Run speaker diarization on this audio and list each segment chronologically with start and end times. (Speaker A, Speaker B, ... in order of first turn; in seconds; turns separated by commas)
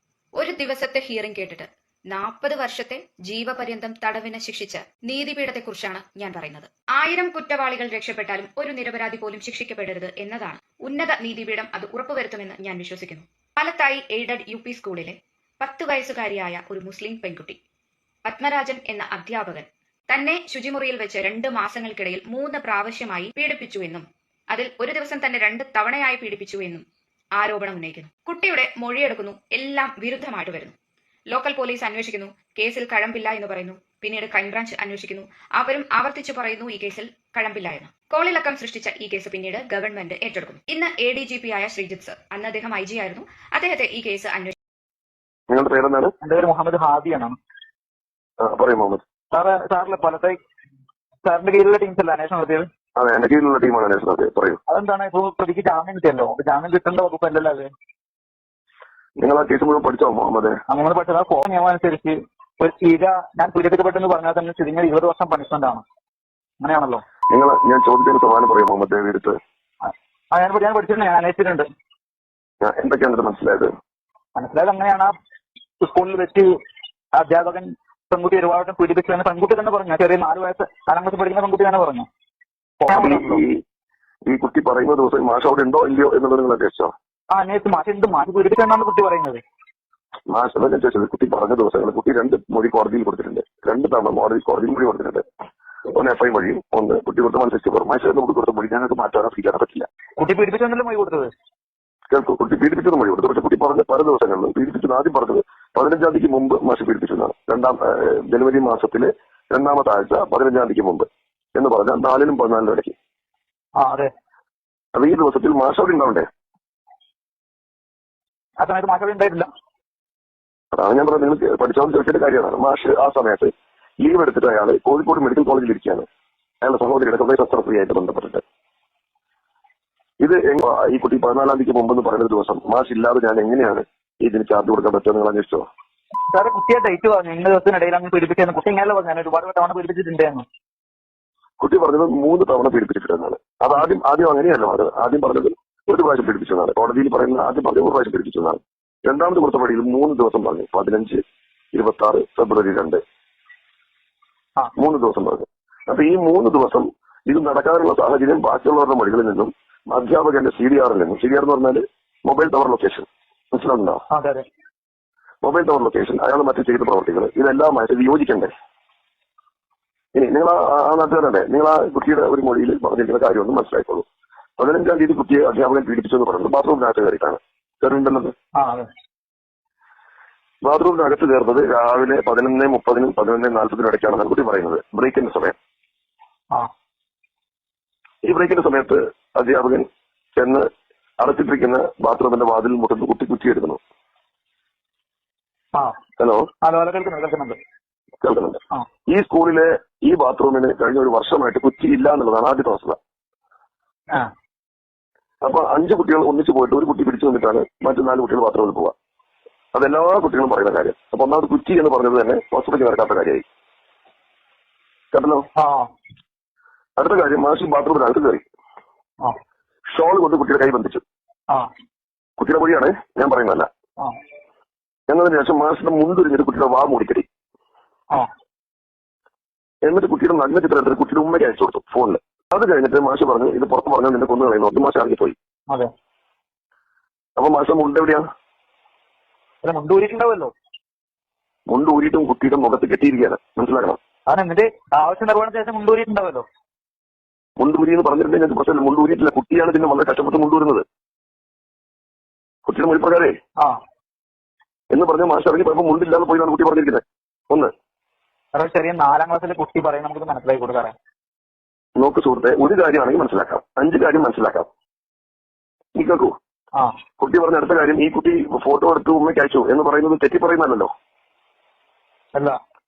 Speaker A: 0.3-17.6, Speaker A: 18.2-30.7, Speaker A: 31.3-44.6, Speaker B: 45.5-46.1, Speaker C: 46.2-47.4, Speaker B: 48.4-49.0, Speaker C: 49.3-50.4, Speaker C: 51.2-52.7, Speaker B: 53.0-54.6, Speaker C: 54.7-57.7, Speaker B: 59.2-60.6, Speaker C: 60.7-65.8, Speaker C: 66.6-67.0, Speaker B: 67.3-69.4, Speaker C: 69.9-71.7, Speaker B: 72.6-73.7, Speaker C: 74.4-75.1, Speaker C: 75.8-76.5, Speaker C: 77.2-82.1, Speaker C: 82.8-83.4, Speaker B: 82.9-83.6, Speaker B: 84.3-86.9, Speaker C: 87.3-89.4, Speaker B: 90.3-95.3, Speaker B: 95.9-99.9, Speaker C: 100.2-101.3, Speaker B: 102.1-112.9, Speaker C: 113.8-114.1, Speaker B: 114.9-116.3, Speaker C: 118.6-119.5, Speaker B: 120.7-126.0, Speaker B: 126.6-128.4, Speaker B: 130.2-135.7, Speaker C: 136.3-140.4, Speaker B: 141.6-151.2, Speaker B: 151.7-153.0, Speaker B: 154.8-164.0, Speaker C: 164.1-164.4, Speaker B: 165.4-168.5, Speaker B: 170.1-174.1, Speaker B: 174.6-178.3, Speaker C: 178.6-178.9, Speaker B: 180.6-185.6, Speaker B: 188.2-190.7, Speaker B: 191.2-193.8, Speaker B: 196.2-196.5, Speaker C: 196.6-197.6, Speaker B: 198.2-203.0, Speaker B: 205.4-208.9, Speaker B: 209.7-213.4, Speaker B: 215.1-215.5, Speaker C: 215.6-215.9, Speaker B: 217.0-218.4, Speaker B: 219.9-221.0, Speaker B: 222.4-223.7, Speaker B: 225.1-227.3, Speaker B: 229.8-235.4, Speaker B: 237.4-238.3, Speaker C: 239.6-240.5, Speaker B: 241.7-244.0, Speaker C: 244.3-246.5, Speaker B: 247.6-250.8, Speaker B: 252.7-253.3, Speaker B: 254.9-257.7, Speaker C: 258.5-260.9, Speaker B: 262.0-264.7, Speaker B: 265.9-266.4, Speaker B: 267.2-270.9